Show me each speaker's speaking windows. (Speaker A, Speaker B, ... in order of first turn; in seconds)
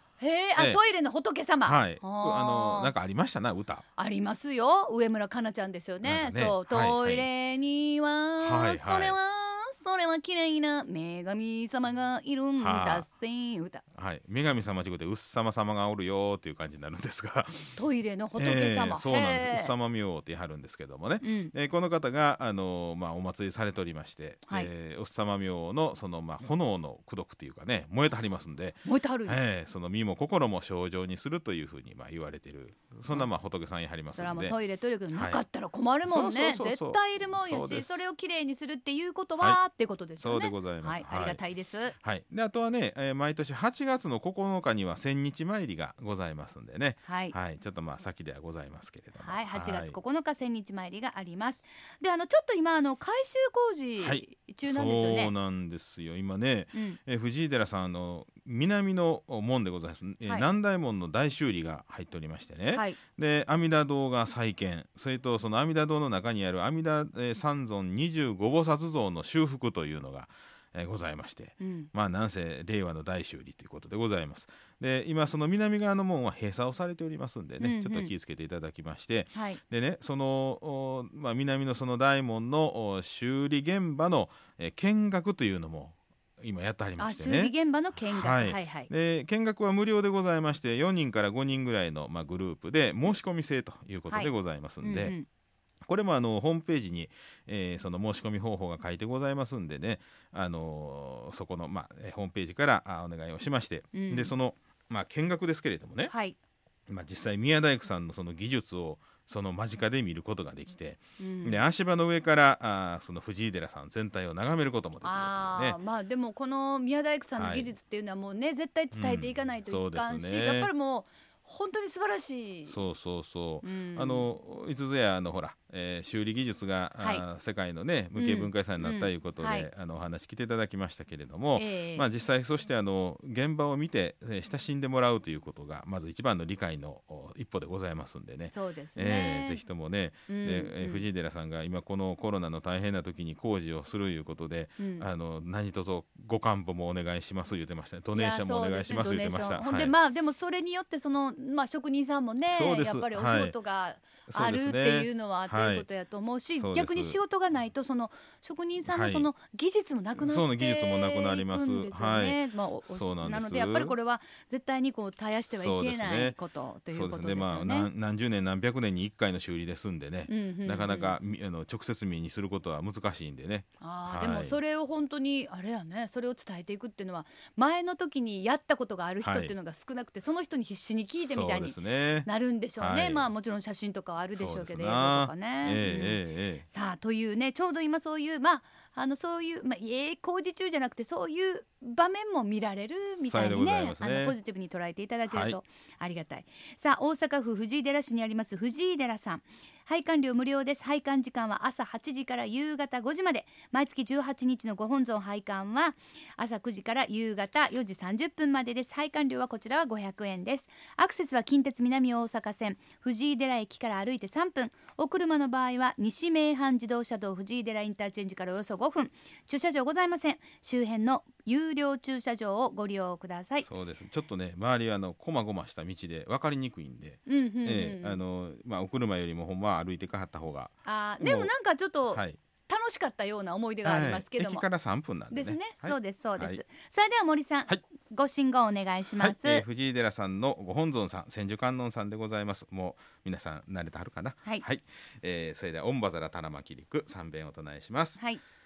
Speaker A: 0.2-2.9, 4.0-13.8, 17.8-19.7, 21.2-21.5, 28.9-29.4, 34.1-42.0, 47.1-47.4, 49.2-55.3, 62.7-63.0, 71.6-71.9, 77.6-78.1, 79.3-79.6, 87.0-88.9, 94.8-95.3, 103.9-104.4, 106.1-106.4, 111.2-111.6, 115.0-122.8, 123.6-124.3, 128.2-129.7, 131.6-132.1, 138.5-139.6, 140.3-141.1, 144.8-145.1, 148.2-167.9, 170.3-171.2, 173.8-223.7, 227.3-228.2, 230.8-234.7, 235.3-239.6
Speaker B: 0.6-0.8, 1.6-3.9, 6.0-7.3, 8.4-9.2, 12.6-13.1, 13.9-17.8, 18.4-34.6, 35.1-35.4, 36.1-38.0, 40.2-41.4, 42.0-50.0, 54.0-95.2, 95.9-106.1, 106.9-115.8, 117.4-117.7, 118.9-120.7, 122.7-149.9, 152.5-153.6, 154.3-155.9, 156.6-157.2, 158.9-159.3, 160.2-164.0, 165.6-166.4, 166.9-174.6, 179.2-179.5, 181.2-183.3, 184.3-186.7, 193.1-194.4, 195.3-195.6, 223.6-231.5, 232.1-232.4, 233.8-236.6, 239.2-248.2